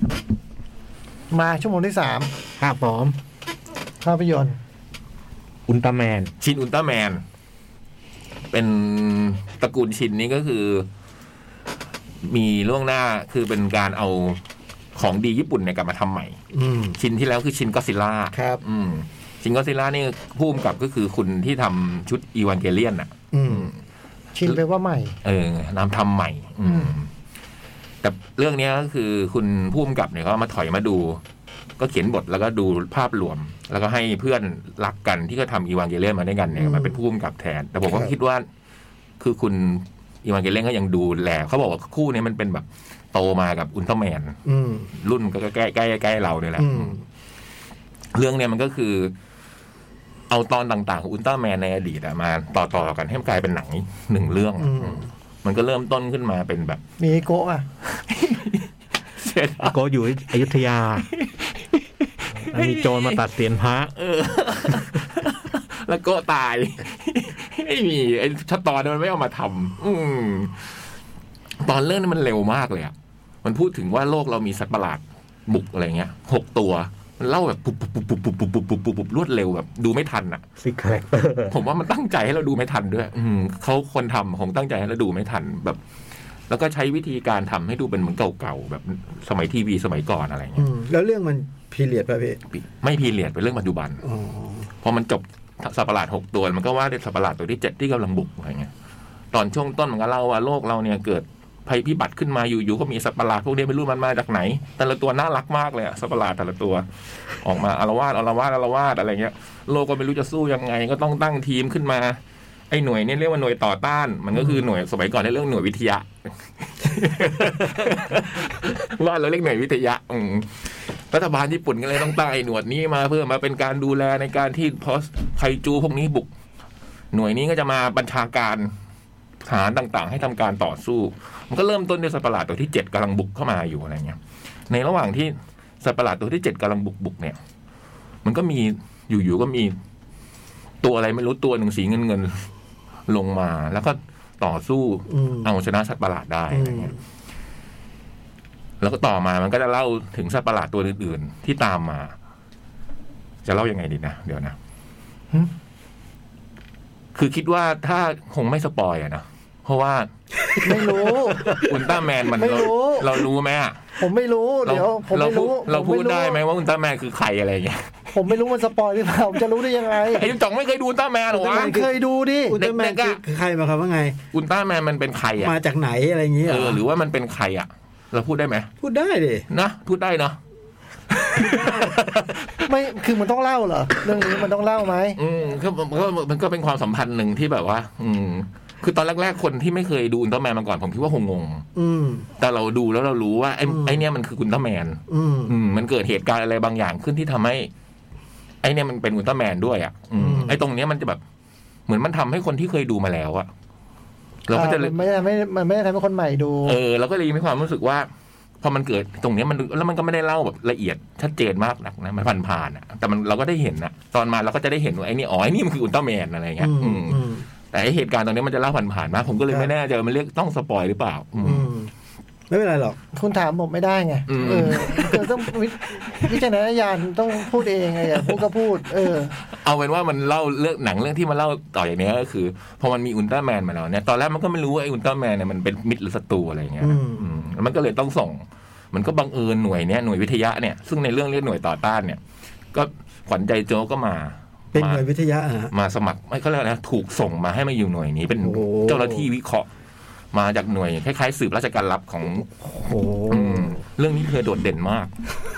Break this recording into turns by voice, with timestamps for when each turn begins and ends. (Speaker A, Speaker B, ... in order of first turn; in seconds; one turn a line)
Speaker A: 1.3-2.3
Speaker B: 2.6-3.2
Speaker A: 4.0-4.6
Speaker B: 5.7-6.3
Speaker C: 6.4-7.2
Speaker C: 8.5-10.9
Speaker C: 12.2-14.4
Speaker C: 14.9-16.4
Speaker D: 16.5-17.0
Speaker C: 17.0-23.8
Speaker D: 18.3-18.6
Speaker D: 23.3-23.7
Speaker A: 24.4-25.1
Speaker C: 25.2-27.1
Speaker A: 26.6-26.9
Speaker C: 28.0-31.2
Speaker C: 31.8-38.5
Speaker D: 36.6-37.0
Speaker C: 39.2-44.4
Speaker D: 44.5-44.9
Speaker C: 45.0-46.9
Speaker D: 46.6-47.0
Speaker C: 48.1-49.1
Speaker C: 50.3-56.8
Speaker D: 54.6-55.1
Speaker A: 57.0-57.7
Speaker C: 57.9-59.8
Speaker B: 59.6-61.1
Speaker C: 61.2-63.2
Speaker B: 62.4-64.0
Speaker C: 64.0-70.8
Speaker C: 71.6-72.9
Speaker C: 73.4-80.4
Speaker B: 80.6-81.6
Speaker C: 81.5-85.8
Speaker C: 86.5-90.7
Speaker D: 90.6-92.4
Speaker C: 92.7-94.0
Speaker D: 94.0-94.7
Speaker C: 94.8-98.7
Speaker C: 99.3-106.8
Speaker C: 107.4-126.3
Speaker C: 127.1-128.7
Speaker C: 129.4-134.2
Speaker C: 134.7-137.4
Speaker C: 138.2-139.8
Speaker C: 140.8-142.5
Speaker C: 143.1-146.9
Speaker D: 145.1-145.5
Speaker D: 146.5-147.0
Speaker C: 148.8-152.2
Speaker C: 153.4-154.6
Speaker C: 157.2-160.1
Speaker C: 160.6-163.9
Speaker A: 160.6-161.7
Speaker A: 162.3-163.1
Speaker A: 164.0-166.4
Speaker C: 164.7-167.9
Speaker A: 168.1-170.3
Speaker C: 170.0-171.8
Speaker D: 171.3-172.0
Speaker A: 171.3-172.6
Speaker D: 172.5-174.2
Speaker C: 172.6-173.2
Speaker C: 174.3-175.6
Speaker D: 175.4-176.8
Speaker C: 176.5-178.7
Speaker D: 178.8-179.5
Speaker C: 179.5-180.4
Speaker C: 181.1-182.7
Speaker A: 182.7-185.2
Speaker C: 185.2-191.7
Speaker D: 191.8-192.3
Speaker C: 192.4-197.7
Speaker D: 193.7-194.0
Speaker D: 195.1-195.6
Speaker C: 198.6-201.2
Speaker D: 200.2-200.6
Speaker C: 201.9-203.5
Speaker C: 204.5-205.0
Speaker A: 204.5-206.8
Speaker C: 206.7-208.1
Speaker C: 208.6-221.7
Speaker D: 216.6-217.5
Speaker D: 221.4-221.9
Speaker D: 222.5-223.0
Speaker A: 223.1-229.4
Speaker C: 224.3-225.4
Speaker C: 229.4-242.2
Speaker D: 236.8-237.3
Speaker C: 242.7-245.1
Speaker D: 244.7-245.7
Speaker C: 245.7-249.7
Speaker D: 248.4-249.3
Speaker C: 250.3-252.5
Speaker D: 252.6-253.8
Speaker C: 253.3-255.1